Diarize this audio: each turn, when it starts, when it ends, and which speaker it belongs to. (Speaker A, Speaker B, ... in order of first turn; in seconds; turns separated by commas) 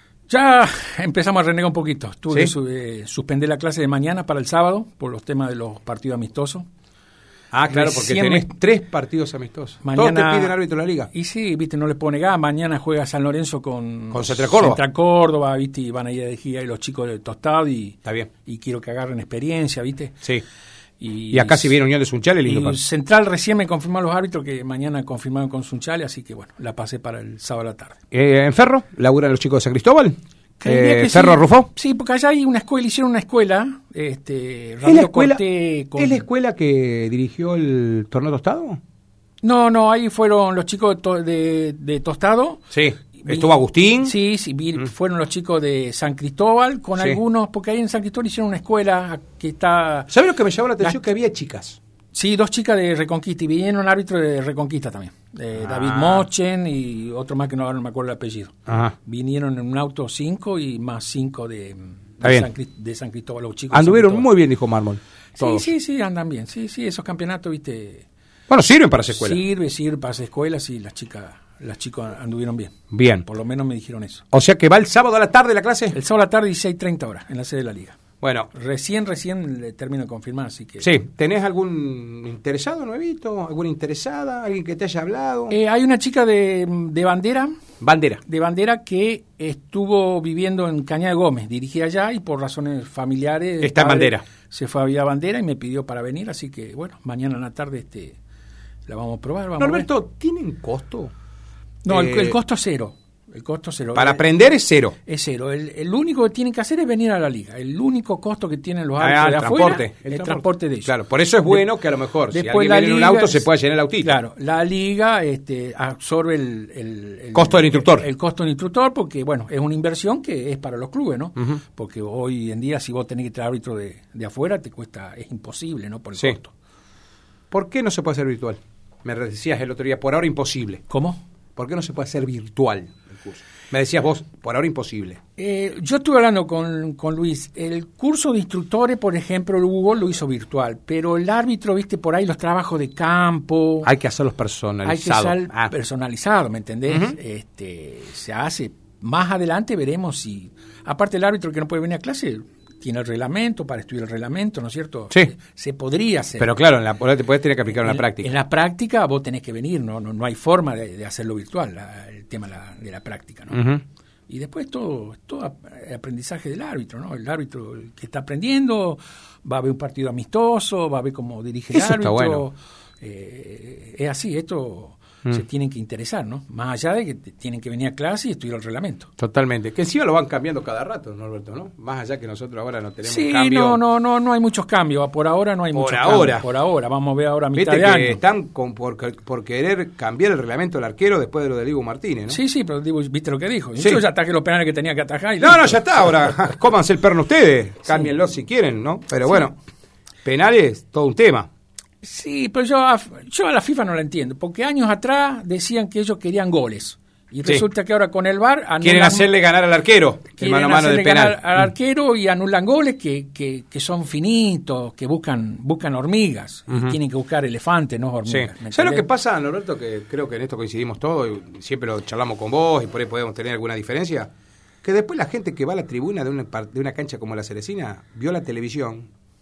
Speaker A: 0.3-6.7, Speaker B: 7.5-11.1, Speaker A: 7.7-8.5, Speaker A: 9.8-10.6, Speaker A: 11.1-20.2, Speaker B: 14.1-14.8, Speaker A: 21.0-21.8, Speaker B: 21.3-22.8, Speaker A: 22.4-28.0, Speaker B: 28.1-31.7, Speaker A: 30.6-36.2, Speaker B: 34.8-35.4, Speaker B: 36.0-38.8, Speaker A: 39.4-42.6, Speaker B: 42.7-44.1, Speaker A: 43.2-50.1, Speaker B: 50.1-51.8, Speaker A: 52.1-64.3, Speaker B: 55.6-56.3, Speaker B: 58.7-58.9, Speaker B: 62.2-62.5, Speaker B: 63.7-65.7, Speaker A: 65.4-68.0, Speaker B: 68.5-69.4, Speaker A: 69.1-74.2, Speaker B: 72.9-73.3, Speaker B: 74.3-76.0, Speaker A: 75.9-78.0, Speaker B: 78.2-78.5, Speaker A: 78.5-80.9, Speaker B: 80.8-85.5, Speaker A: 85.5-87.6, Speaker B: 87.8-88.2, Speaker A: 88.2-98.2, Speaker B: 93.6-94.2, Speaker A: 98.9-99.9, Speaker B: 99.6-101.1, Speaker A: 101.8-104.2, Speaker B: 101.9-102.4, Speaker B: 104.0-105.0, Speaker A: 105.0-111.0, Speaker B: 109.0-114.2, Speaker A: 112.3-113.5, Speaker A: 114.0-126.5, Speaker B: 117.3-118.1, Speaker B: 127.5-130.8, Speaker A: 130.9-131.2, Speaker B: 131.6-135.2, Speaker A: 135.4-143.9, Speaker B: 143.8-145.7, Speaker A: 144.8-156.5, Speaker B: 146.9-147.2, Speaker B: 156.4-158.3, Speaker A: 157.7-163.6, Speaker B: 163.5-163.8, Speaker A: 164.3-179.1, Speaker B: 171.7-172.4, Speaker B: 179.2-183.8, Speaker A: 183.1-188.2, Speaker B: 185.7-186.5, Speaker B: 187.6-192.4, Speaker A: 192.3-196.3, Speaker B: 195.4-199.6, Speaker B: 200.2-201.5, Speaker A: 202.0-209.3, Speaker B: 208.8-211.7, Speaker A: 210.4-219.0, Speaker B: 216.7-217.0, Speaker B: 218.3-224.3, Speaker B: 224.8-229.1